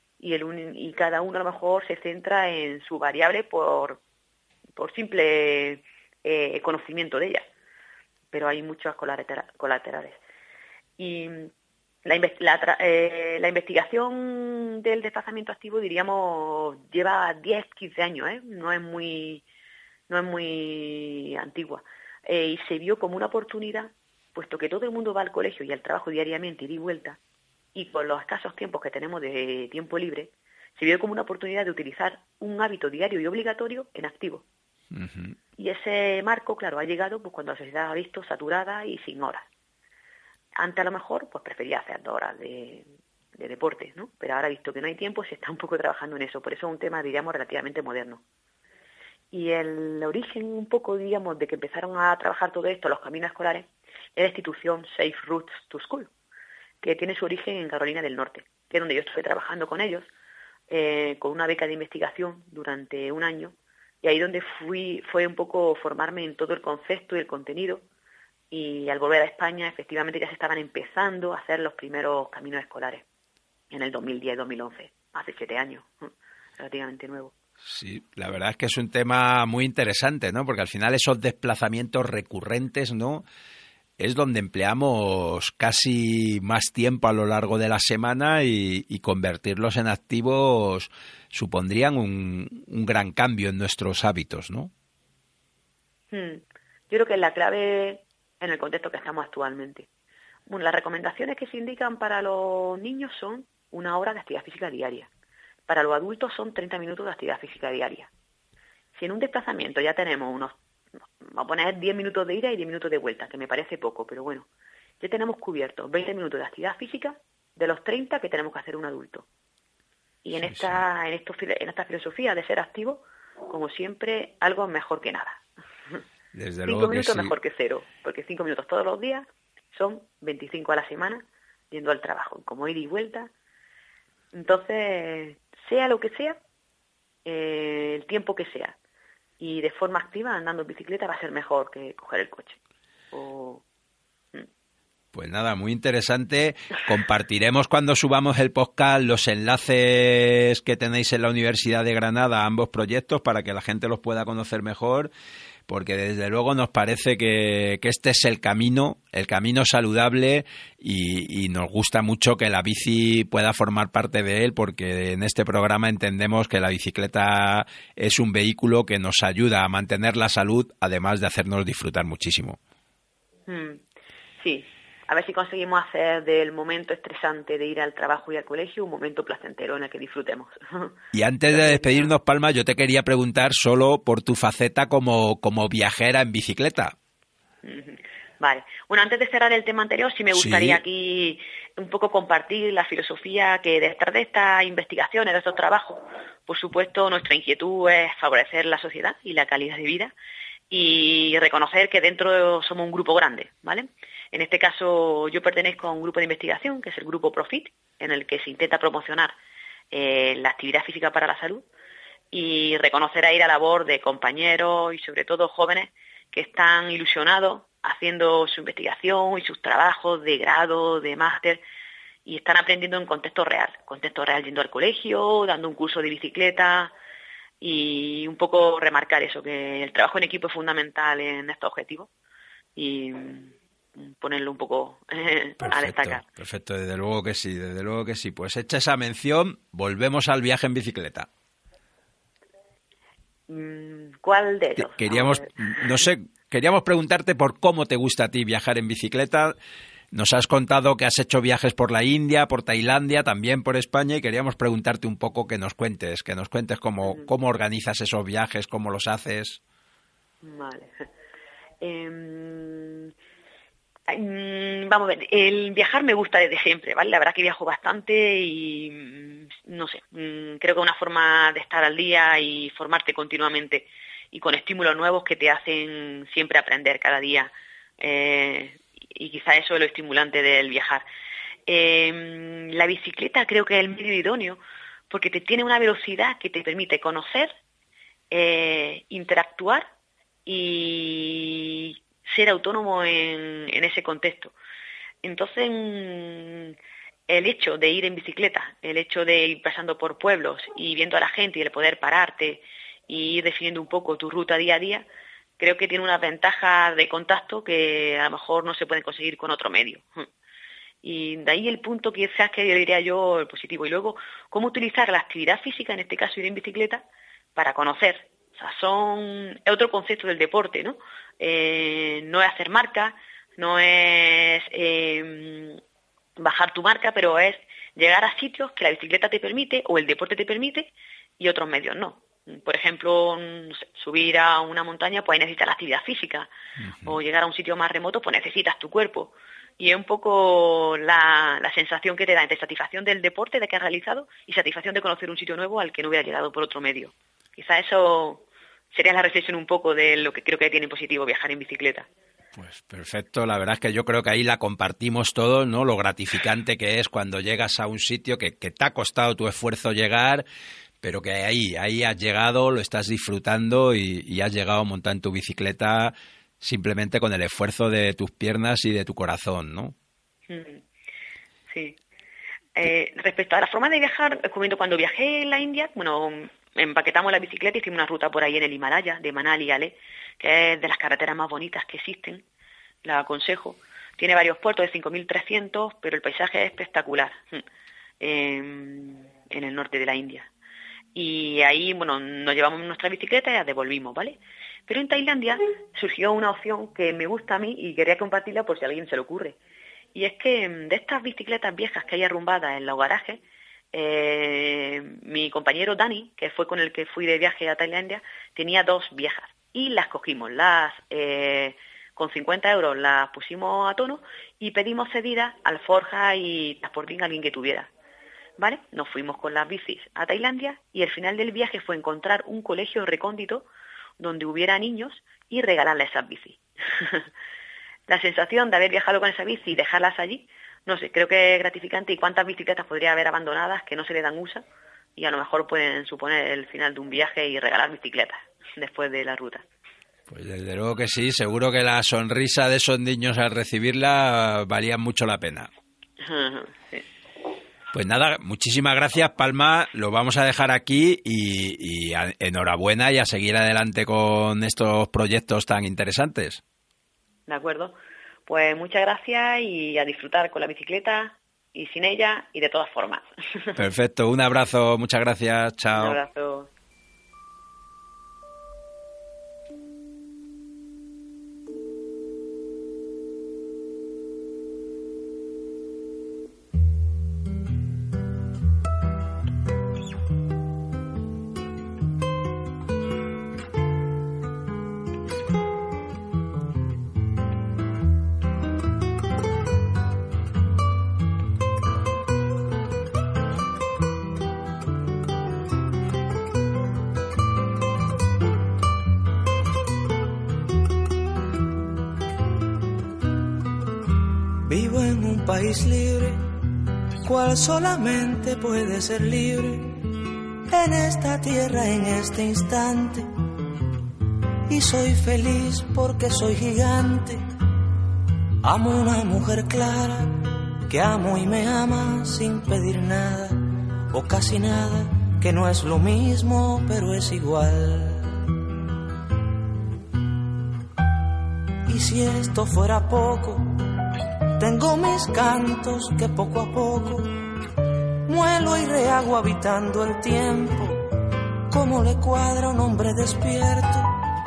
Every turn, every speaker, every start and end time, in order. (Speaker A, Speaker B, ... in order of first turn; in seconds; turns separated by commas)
Speaker A: 0.2-4.0, Speaker A: 4.8-7.5, Speaker A: 8.3-10.2, Speaker A: 11.0-11.5, Speaker A: 12.1-19.4, Speaker A: 20.1-27.2, Speaker A: 27.8-34.4, Speaker B: 34.9-35.4, Speaker A: 35.6-39.5, Speaker A: 40.6-48.2, Speaker A: 49.3-56.1, Speaker A: 56.8-60.1, Speaker A: 60.7-67.8, Speaker A: 68.5-73.0, Speaker A: 73.7-77.3, Speaker B: 77.6-83.2, Speaker B: 84.0-94.7, Speaker A: 96.1-99.9, Speaker A: 100.5-105.1, Speaker A: 105.7-108.1, Speaker A: 109.0-110.6, Speaker A: 111.2-114.5, Speaker A: 115.0-119.3, Speaker A: 120.2-126.0, Speaker B: 120.4-120.8, Speaker B: 126.3-127.3, Speaker A: 126.7-133.3, Speaker A: 134.3-136.4, Speaker A: 137.2-138.8, Speaker A: 139.4-142.6, Speaker A: 143.1-143.6, Speaker B: 145.1-155.1, Speaker B: 155.7-172.6, Speaker A: 173.5-173.8, Speaker A: 174.4-181.0, Speaker B: 181.1-186.9, Speaker A: 181.5-182.1, Speaker A: 187.6-200.1, Speaker B: 190.3-190.8, Speaker A: 200.7-209.3, Speaker A: 209.9-211.7, Speaker A: 212.3-221.6, Speaker A: 222.3-226.9, Speaker A: 227.6-232.1, Speaker A: 232.8-236.2, Speaker B: 235.6-241.3, Speaker A: 243.5-246.0, Speaker B: 244.8-249.6, Speaker B: 250.1-259.6, Speaker A: 260.4-261.1, Speaker A: 261.8-263.1, Speaker A: 264.1-281.1, Speaker A: 281.7-287.5, Speaker A: 288.3-289.9, Speaker A: 290.5-294.6, Speaker A: 295.2-296.8, Speaker A: 297.3-305.1, Speaker A: 305.6-310.3, Speaker A: 311.0-325.8, Speaker A: 326.4-336.5, Speaker B: 336.8-337.2, Speaker A: 337.1-352.1, Speaker B: 352.6-360.4, Speaker B: 361.0-369.9, Speaker A: 370.5-370.8, Speaker A: 371.7-372.0, Speaker A: 372.8-382.4, Speaker A: 383.0-387.6, Speaker A: 388.2-390.5, Speaker A: 391.1-399.6, Speaker A: 400.1-403.4, Speaker A: 403.9-417.9, Speaker A: 418.6-423.7, Speaker A: 424.2-427.2, Speaker A: 428.1-434.6, Speaker A: 435.2-439.6, Speaker B: 440.3-445.7, Speaker A: 446.2-447.0, Speaker B: 447.9-456.6, Speaker A: 457.5-457.9, Speaker A: 458.5-463.8, Speaker B: 463.8-466.1, Speaker A: 465.9-466.7, Speaker C: 504.6-506.5, Speaker C: 507.2-510.1, Speaker C: 510.7-513.3, Speaker C: 514.7-517.5, Speaker C: 518.6-528.4, Speaker C: 531.9-533.8, Speaker C: 534.6-537.4, Speaker C: 538.3-541.1, Speaker C: 541.7-544.1